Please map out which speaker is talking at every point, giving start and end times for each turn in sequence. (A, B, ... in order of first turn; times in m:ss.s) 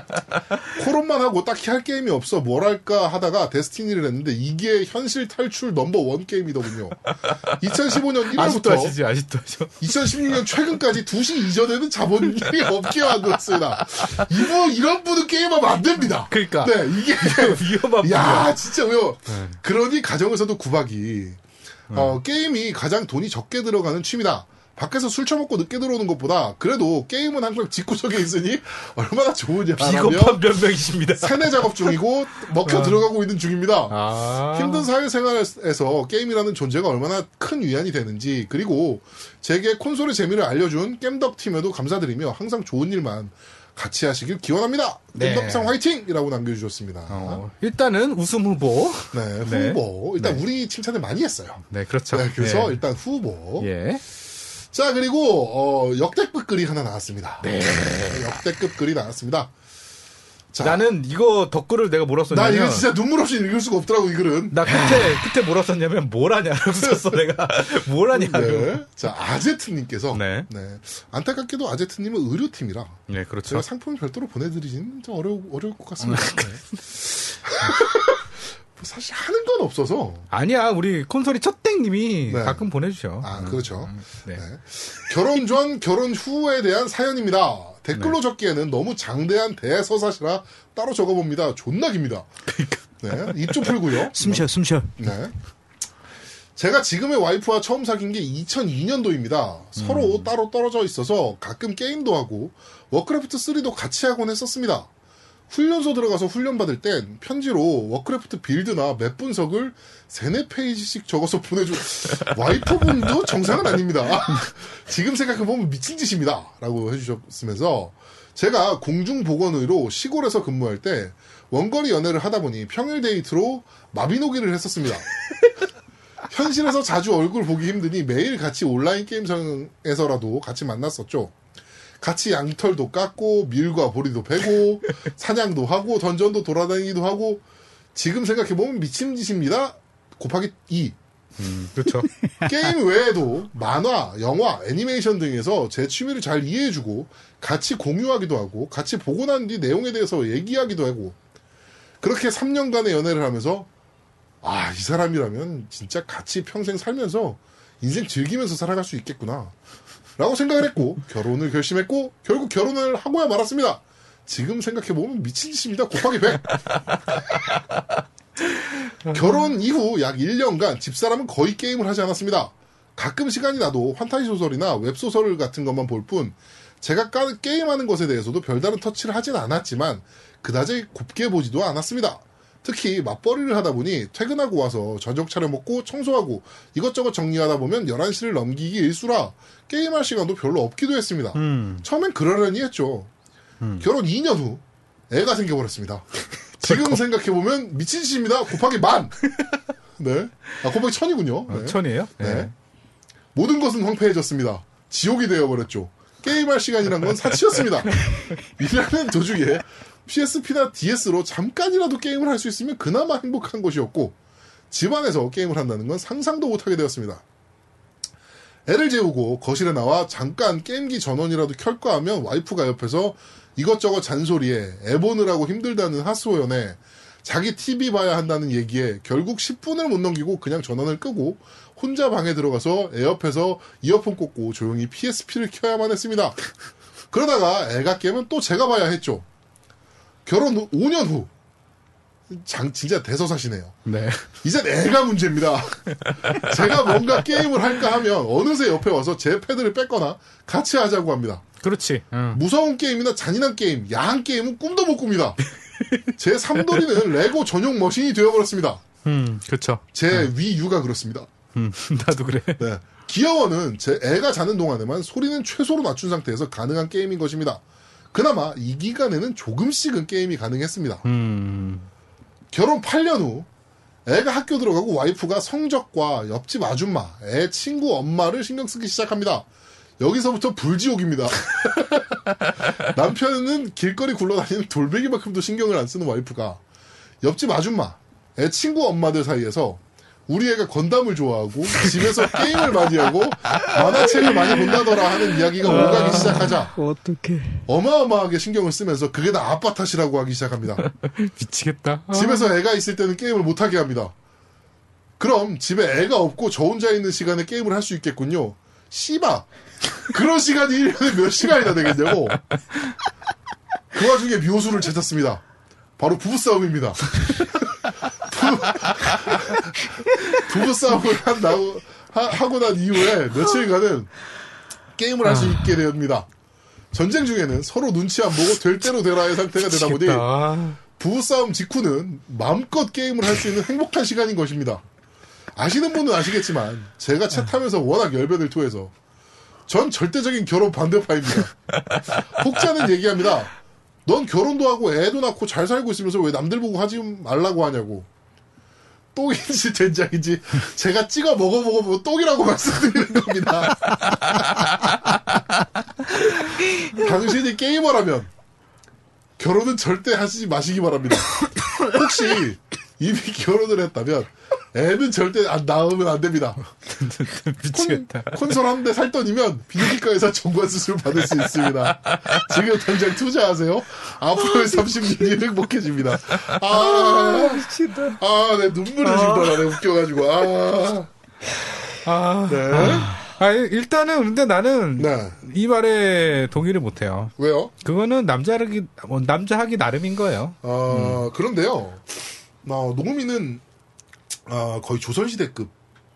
0:00.7-0:07.0 A
0:07.2-0:07.6 B
0:07.6-0:09.0 A
0:08.3-0:10.1 B
0:09.8-0:30.4 A
0:13.6-0:14.4 B
0:16.3-0:18.6 B
0:19.3-0:19.6 B
0:21.9-0:22.2 B
0:29.8-0:32.0 B
0:31.2-0:34.0 A
0:32.6-0:33.0 B
0:33.9-0:34.9 B
0:34.5-0:47.4 A
0:45.2-0:45.7 B
0:47.1-0:50.4 B
0:49.1-0:53.7 A
0:51.7-0:52.8 B
0:53.6-0:54.0 B
0:54.7-0:59.5 A
0:57.4-0:58.4 B
1:00.5-1:00.8 A
1:00.6-1:02.9 B
1:02.3-1:05.0 A
1:04.5-1:08.8 B
1:08.1-1:20.3 A
1:10.1-1:10.5 B
1:13.1-1:13.7 B
1:16.0-1:16.6 B
1:20.3-1:24.4 B
1:22.3-1:22.6 A
1:23.2-1:32.3 A
1:32.5-1:33.8 B
1:33.0-1:35.3 A
1:34.1-1:35.0 C
1:36.6-1:44.9 A
1:39.8-1:40.3 B
1:45.5-2:05.1 A
2:06.3-2:11.4 A
2:12.0-2:17.4 A
2:18.0-2:21.0 A
2:21.4-2:22.1 B
2:22.4-2:31.2 A
2:32.0-2:33.7 A
2:34.4-2:39.5 A
2:40.2-2:46.6 A
2:49.1-3:13.1 A
3:11.4-3:11.8 B
3:13.6-3:13.9 B
3:13.8-3:19.2 A
3:16.6-3:17.0 B
3:20.0-3:22.5 A
3:21.5-3:22.5 B
3:23.4-3:34.2 A
3:34.7-3:37.2 A
3:38.7-3:56.4 A
3:57.1-3:59.3 A
4:00.3-4:01.3 A
4:02.3-4:03.8 A
4:03.9-4:04.3 B
4:04.4-4:11.4 A
4:11.6-4:12.4 B
4:12.3-4:15.4 A
4:15.8-4:17.0 B
4:16.2-4:18.8 A
4:19.0-4:20.3 B
4:19.9-4:21.3 A
4:21.6-4:22.6 B
4:22.6-4:31.0 A
4:31.0-4:31.9 B
4:32.5-4:33.5 A
4:34.1-4:39.5 A
4:40.0-4:46.6 A
4:47.2-4:56.8 A
4:55.6-4:57.6 C
4:55.7-4:56.6 B
4:57.7-5:00.8 A
5:00.8-5:02.5 B
5:02.1-5:04.1 A
5:05.2-5:09.5 A
5:10.0-5:12.4 A
5:13.9-5:15.4 A
5:16.0-5:24.1 A
5:25.0-5:26.3 A
5:26.9-5:30.3 A
5:29.7-5:30.8 B
5:30.8-5:34.8 A
5:35.6-5:38.9 A
5:39.7-5:43.5 A
5:44.1-5:48.1 A
5:49.2-5:54.9 A
5:56.8-5:58.3 A
5:59.4-6:06.7 A
6:06.9-6:08.6 B
6:07.7-6:21.1 A
6:12.1-6:12.5 B
6:14.6-6:15.2 C
6:16.7-6:18.2 C
6:22.0-6:31.2 B
6:22.5-6:23.2 A
6:25.0-6:25.4 A
6:27.4-6:27.7 A
6:30.6-6:33.6 A
6:34.5-6:35.7 A